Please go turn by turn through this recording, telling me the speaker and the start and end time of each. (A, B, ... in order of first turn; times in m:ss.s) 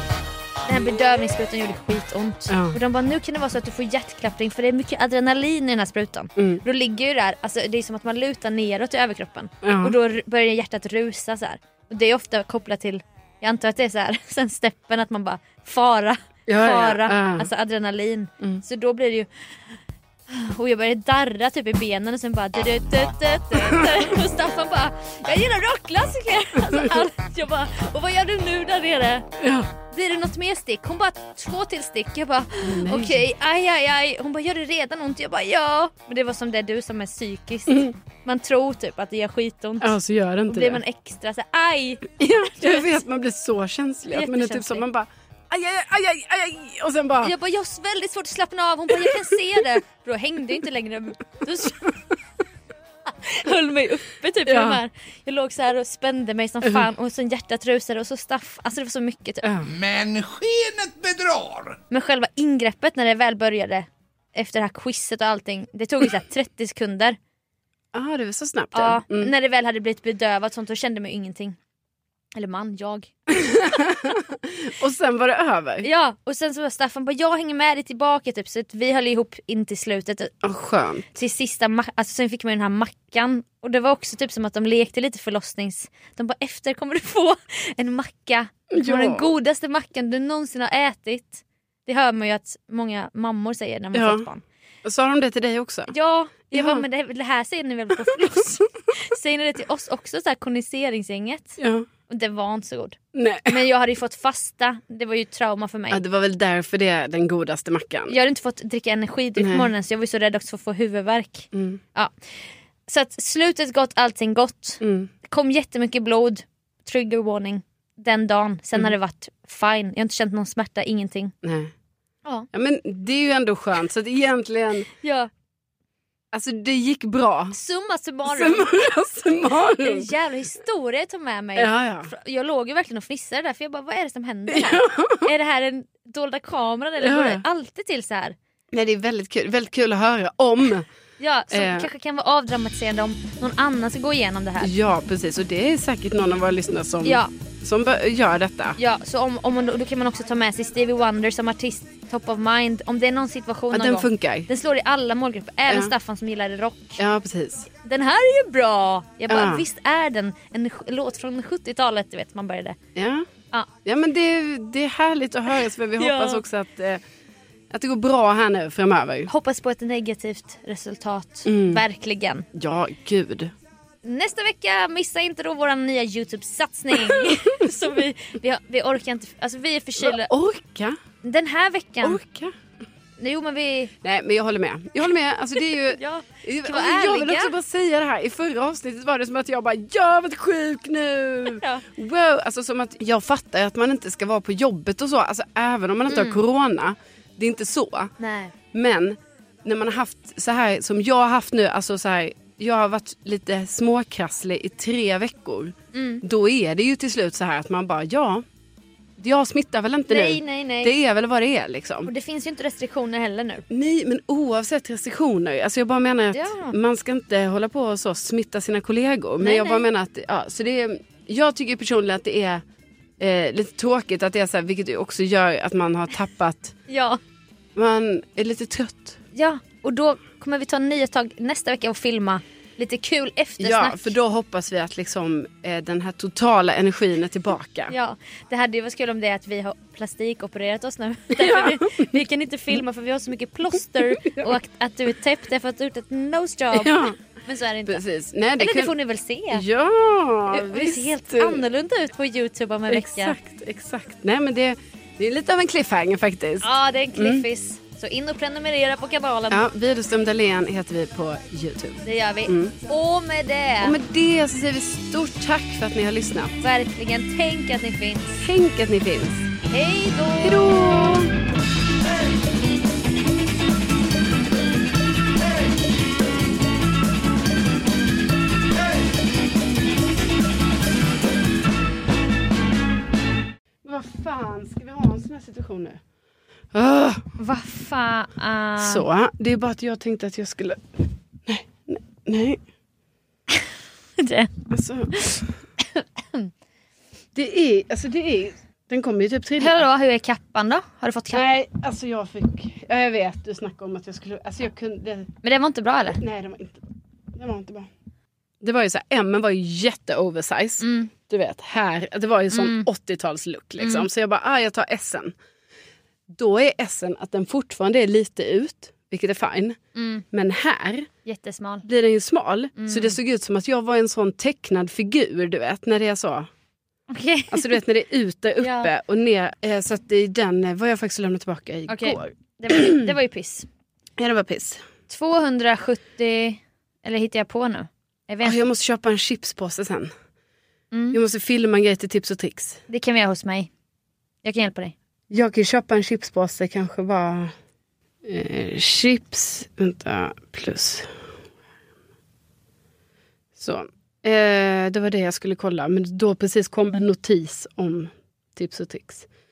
0:00.6-0:40.0 A
0:02.5-0:02.8 B
0:06.4-0:06.6 B
0:09.6-0:10.0 B
0:16.5-0:17.5 B
0:29.4-0:29.7 B
0:32.6-0:33.3 B
0:39.8-0:40.8 B
0:40.5-0:43.0 A
0:42.2-0:47.3 B
0:44.1-0:44.8 A
0:47.2-0:52.0 A
0:53.0-0:59.5 A
0:54.5-0:54.8 B
0:59.4-0:59.7 B
0:59.6-1:01.8 C
1:01.9-1:07.2 A
1:07.9-1:09.3 B
1:08.7-1:11.6 A
1:12.4-1:13.9 A
1:13.3-1:15.9 B
1:15.8-1:20.4 A
1:20.4-1:21.0 B
1:21.1-1:34.4 A
1:28.7-1:29.3 B
1:33.9-1:34.3 B
1:34.8-1:35.9 B
1:35.9-1:46.0 A
1:36.5-1:36.8 B
1:41.6-1:41.9 B
1:43.1-1:43.6 B
1:45.9-1:48.2 B
1:48.1-1:52.1 A
1:49.4-1:49.7 B
1:51.5-1:51.8 B
1:52.9-2:01.3 A
1:54.8-1:55.1 B
2:01.4-2:01.7 B
2:02.5-2:04.9 B
2:05.0-2:05.3 A
2:06.3-2:07.6 B
2:07.5-2:08.9 A
2:08.2-2:10.1 B
2:09.6-2:18.4 A
2:11.6-2:12.1 B
2:14.5-2:15.3 B
2:17.0-2:17.4 B
2:18.7-2:20.9 B
2:21.2-2:24.7 A
2:21.5-2:21.9 B
2:24.6-2:28.8 B
2:27.0-2:27.3 A
2:28.8-2:37.0 A
2:33.7-2:34.5 B
2:35.7-2:35.9 B
2:37.0-2:37.7 B
2:37.8-2:42.8 A
2:39.3-2:39.6 B
2:43.0-2:43.3 B
2:43.8-2:47.0 B
2:46.0-2:46.4 A
2:47.7-2:49.3 B
2:49.3-2:52.5 A
2:51.5-2:51.8 B
2:52.5-2:53.5 B
2:54.0-3:00.3 A
2:57.0-2:57.4 B
3:00.0-3:01.0 B
3:01.2-3:02.2 A
3:02.0-3:02.5 B
3:03.2-3:03.9 A
3:04.0-3:18.2 B
3:05.9-3:07.5 A
3:11.5-3:11.8 A
3:16.1-3:16.4 A
3:18.2-3:18.5 A
3:18.7-3:28.4 B
3:25.9-3:26.2 A
3:29.2-3:32.1 B
3:30.1-3:30.9 A
3:32.0-3:33.7 A
3:33.7-3:42.6 B
3:36.3-3:36.8 A
3:39.4-3:39.9 A
3:43.2-3:46.8 B
3:46.9-3:47.2 A
3:47.8-3:49.2 B
3:49.3-3:54.1 A
3:53.6-3:58.0 B
3:57.9-4:08.0 A
4:01.3-4:02.2 B
4:04.1-4:04.6 B
4:06.7-4:07.2 B
4:07.9-4:08.9 B
4:08.6-4:09.6 A
4:09.5-4:11.6 B
4:10.5-4:13.4 A
4:12.9-4:17.5 B
4:16.6-4:19.7 A
4:19.5-4:22.8 B
4:22.0-4:24.0 A
4:23.8-4:26.6 B
4:26.6-4:28.4 A
4:28.4-4:29.5 B
4:29.6-4:31.3 A
4:30.4-4:31.3 B
4:43.8-4:46.0 B
4:46.7-4:47.3 B
4:47.4-4:49.1 A
4:48.8-4:50.9 B
4:51.5-4:52.6 B
4:54.2-4:56.5 A
4:54.7-4:55.3 B
4:57.4-4:59.9 B
4:59.6-5:01.4 A
5:01.3-5:05.3 B
5:05.4-5:06.2 A
5:06.2-5:07.9 B
5:08.6-5:15.4 B
5:10.8-5:11.1 A
5:12.5-5:12.9 A
5:13.8-5:14.1 A
5:16.3-5:19.8 B
5:20.0-5:20.2 A
5:20.3-5:21.1 B
5:21.2-5:21.8 A
5:21.8-5:26.5 B
5:22.8-5:23.2 A
5:27.1-5:27.8 A
5:27.5-5:33.1 B
5:28.6-5:28.9 A
5:31.9-5:33.7 A
5:34.2-5:34.8 B
5:35.1-5:38.6 A
5:38.4-5:40.1 B
5:40.9-5:41.2 A
5:41.1-5:42.8 B
5:42.9-5:43.7 A
5:44.4-5:45.0 A
5:45.3-5:47.5 B
5:48.2-5:51.1 B
5:53.6-5:59.3 B